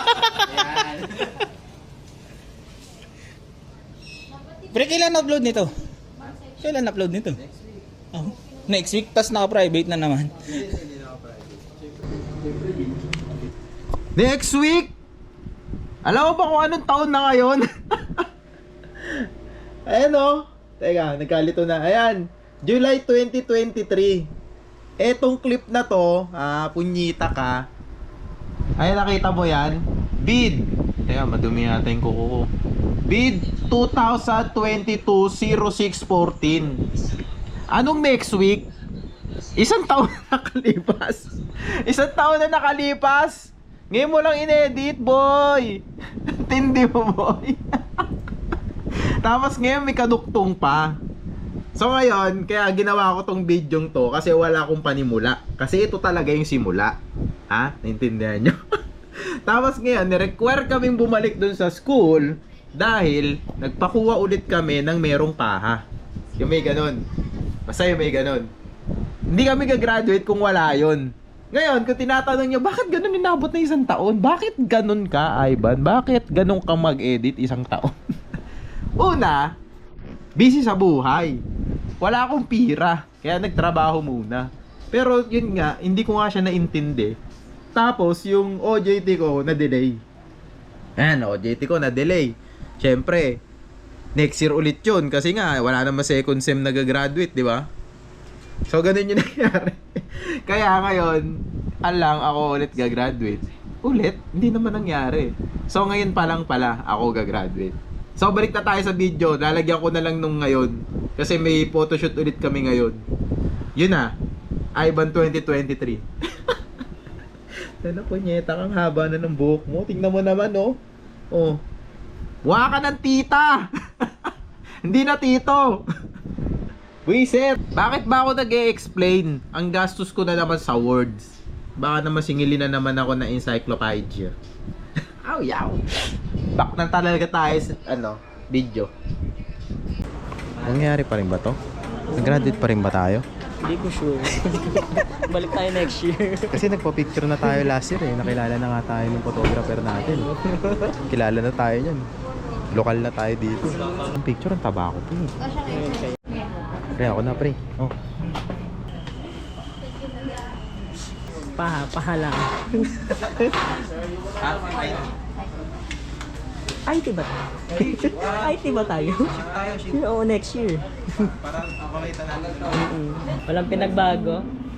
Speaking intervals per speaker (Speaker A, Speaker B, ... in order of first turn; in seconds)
Speaker A: 0.4-1.4, 10.5-11.6, 14.2-14.9, 16.1-18.3, 19.0-19.3, 19.9-24.3, 25.0-27.6, 28.8-32.5, 33.0-36.8, 37.7-38.7, 39.6-48.1, 49.2-50.9, 51.8-57.0, 57.5-58.6, 59.2-65.8, 66.4-67.0, 67.7-68.5, 69.3-77.9, 79.0-79.4, 80.4-81.4, 82.0-87.2, 87.8-90.0, 91.0-93.4, 94.2-97.7, 98.7-113.0, 113.8-114.1, 114.8-116.6, 117.8-120.8, 121.3-121.6, 122.5-124.3, 124.8-125.8, 127.1-134.3, 135.2-135.8, 136.6-138.9, 140.6-141.6, 142.2-143.2, 146.5-150.3, 151.1-152.1, 152.7-155.3, 157.0-158.0, 164.4-165.1, 167.8-168.4, 169.3-170.0, 171.2-172.8
Speaker B: 4.7-5.8, 6.6-7.4, 8.1-10.6
Speaker C: 142.1-142.6, 143.6-146.6, 150.2-151.0, 155.7-156.2, 161.6-163.4, 166.9-169.4, 169.9-170.9, 172.7-174.5